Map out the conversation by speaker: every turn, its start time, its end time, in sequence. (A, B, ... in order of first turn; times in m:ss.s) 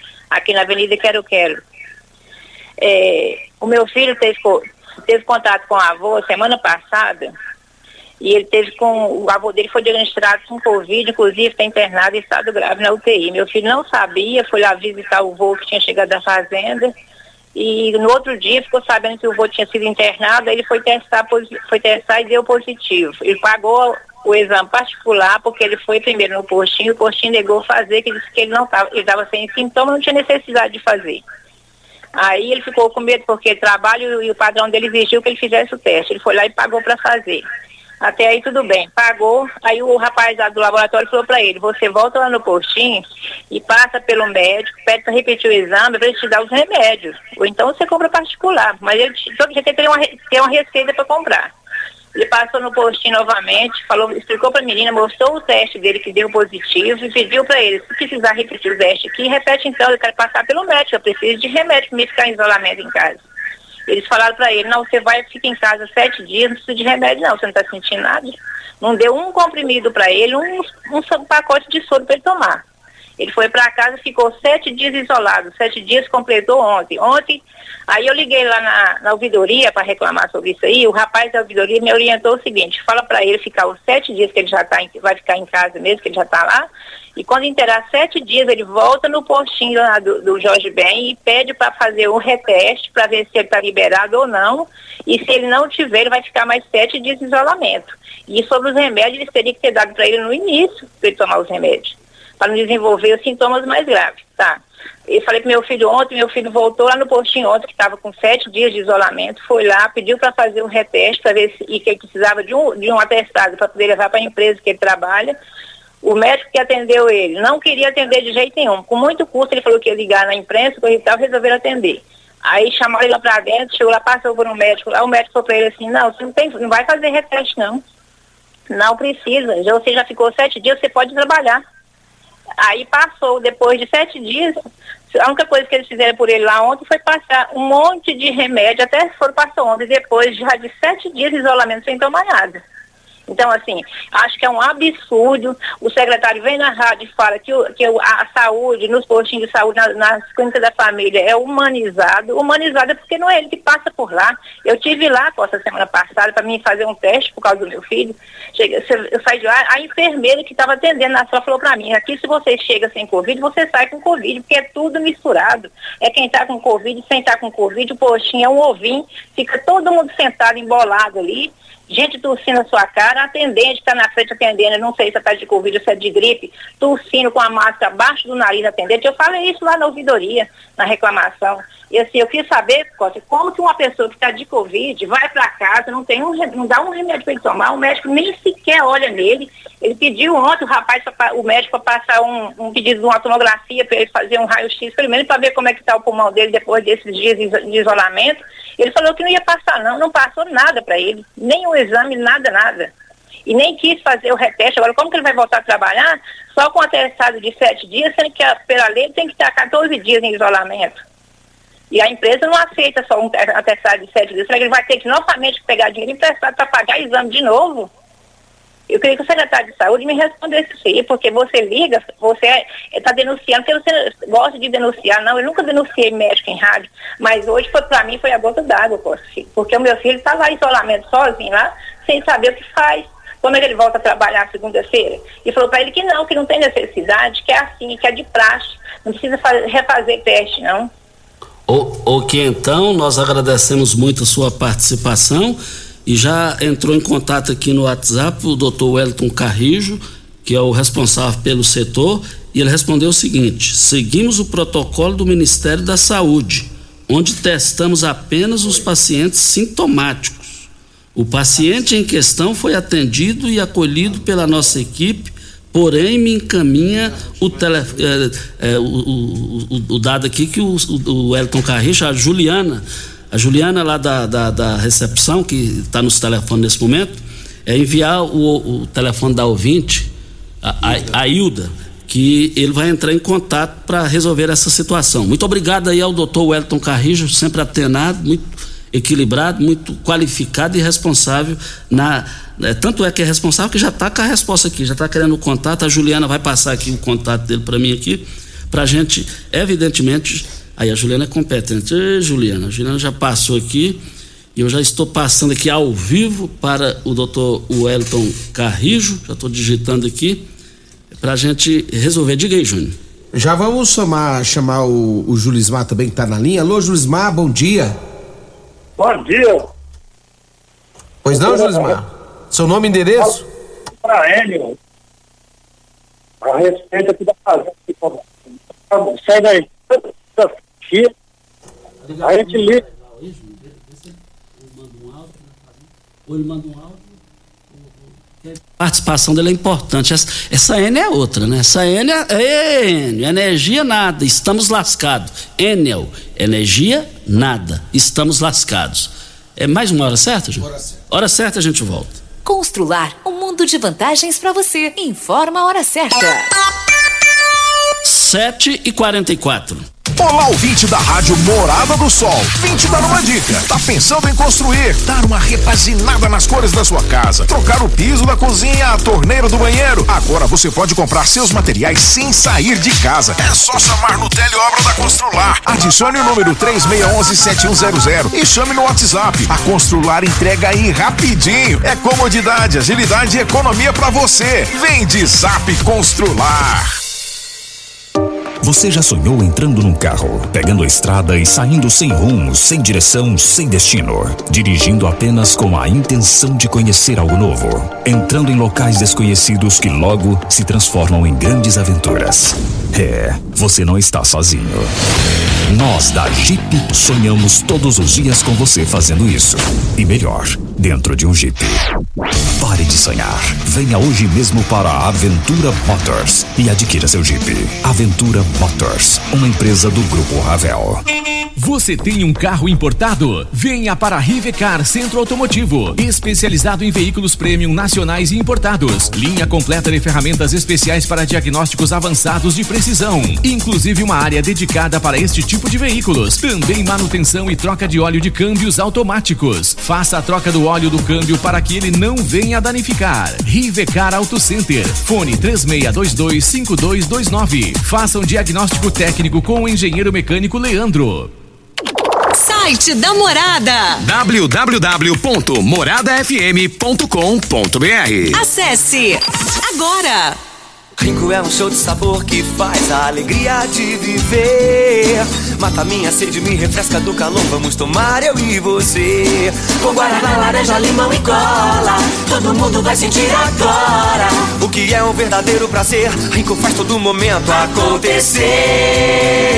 0:00.3-0:01.6 A
0:02.8-0:07.3 A
0:08.2-0:16.9 A
0:17.6-0:31.2 A
0:32.2-0:37.4 A
0:38.0-0:51.5 A
0:52.1-1:03.2 A
1:03.9-1:12.6 A
1:13.2-1:55.3 A
1:56.0-2:07.8 A
2:08.7-2:11.6 A
2:12.6-2:14.6 A
2:15.1-2:22.6 A
2:23.3-3:22.9 A
3:23.5-3:31.0 A
3:31.9-3:37.9 A
3:38.9-4:00.9 A
4:01.7-4:40.1 B
4:40.6-5:04.0 B
5:04.5-5:10.4 B
5:11.1-5:13.0 B
5:13.3-5:18.0 C
5:19.0-5:19.6 D
5:21.2-5:23.4 C
5:21.3-5:21.8 D
5:24.0-5:24.7 D
5:26.4-5:28.2 D
5:28.9-5:29.7 D
5:30.4-5:31.1 D
5:32.0-5:37.2 B
5:32.2-5:32.8 D
5:37.7-5:52.2 B
5:52.4-5:56.5 E
5:58.0-5:59.8 B
6:00.2-6:26.9 F
6:28.6-6:44.9 G
6:45.7-6:51.8 G
6:52.6-7:01.0 G
7:01.6-7:31.3 H
7:32.3-7:34.0 I
7:34.0-7:38.4 J
7:38.3-7:40.4 I
7:41.0-7:51.9 K
7:54.4-7:59.1 K